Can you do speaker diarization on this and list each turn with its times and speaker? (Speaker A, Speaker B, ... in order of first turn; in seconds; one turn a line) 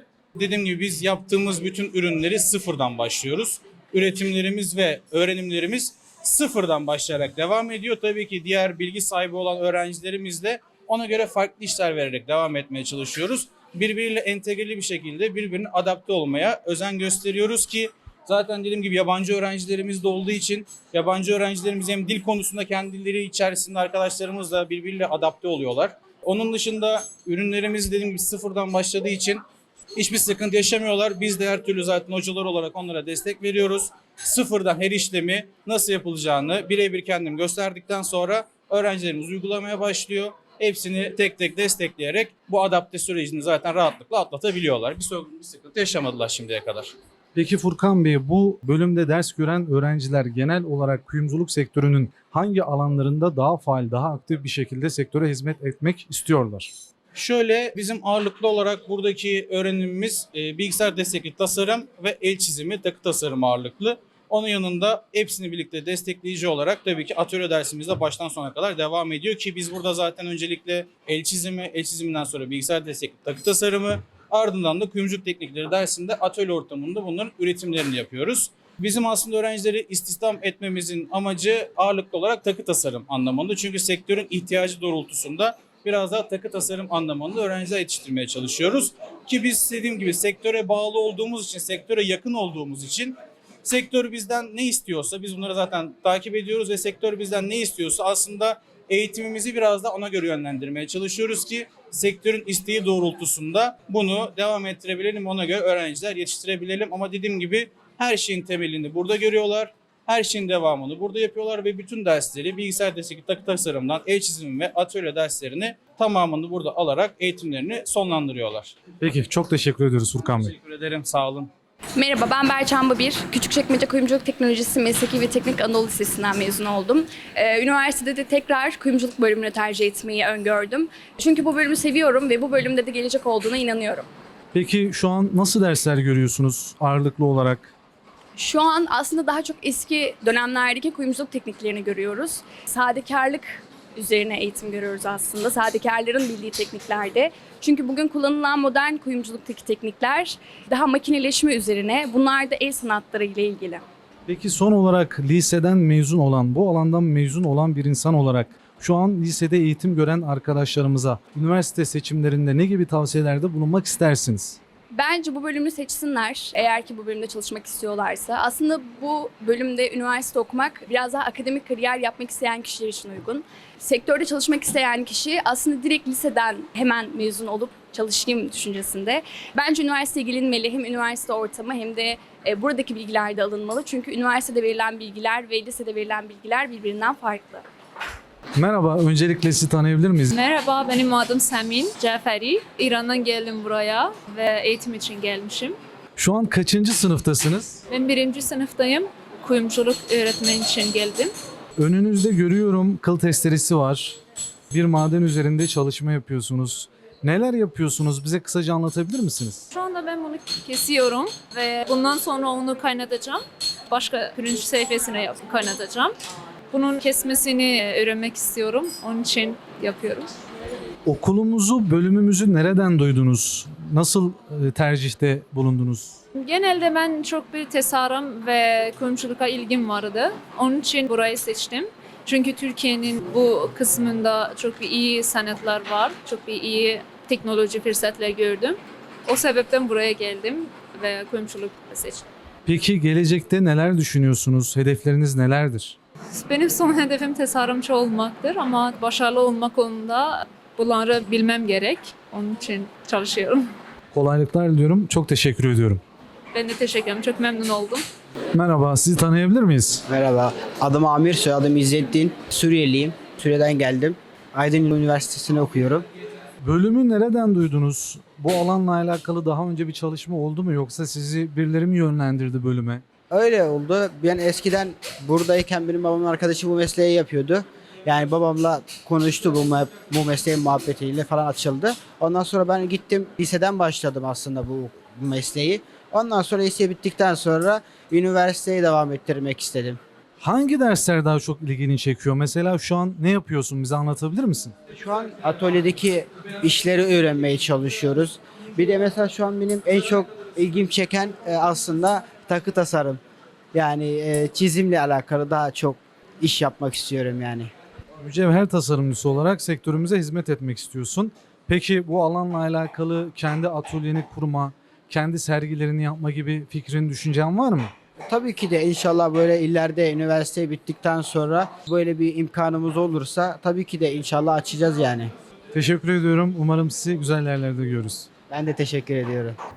Speaker A: 0.3-29.4
Speaker A: 29.9-46.9
Speaker B: 47.3-56.7
Speaker A: 57.1-118.8
Speaker B: 119.0-120.5
Speaker A: 120.2-121.5
Speaker C: 122.0-134.1
Speaker B: 134.5-137.7
Speaker C: 138.3-153.8
Speaker B: 154.3-164.6
Speaker C: 164.9-187.7
Speaker B: 188.5-190.3
Speaker D: 190.3-195.8
Speaker B: 196.2-197.8
Speaker D: 197.9-201.3
Speaker B: 201.8-204.2
Speaker B: 204.7-209.7
Speaker D: 209.7-216.2
Speaker D: 216.7-220.3
Speaker B: 221.0-226.2
Speaker D: 226.3-242.2
Speaker B: 242.7-246.0
Speaker D: 246.3-253.7
Speaker B: 254.1-256.0
Speaker D: 256.5-258.0
Speaker B: 258.5-260.0
Speaker E: 260.1-266.0
Speaker B: 266.6-273.0
Speaker E: 273.3-290.0
Speaker B: 290.4-294.8
Speaker E: 294.9-303.2
Speaker E: 303.7-307.7
Speaker B: 308.2-317.9
Speaker E: 318.3-325.3
Speaker B: 325.7-328.3
Speaker E: 328.5-329.6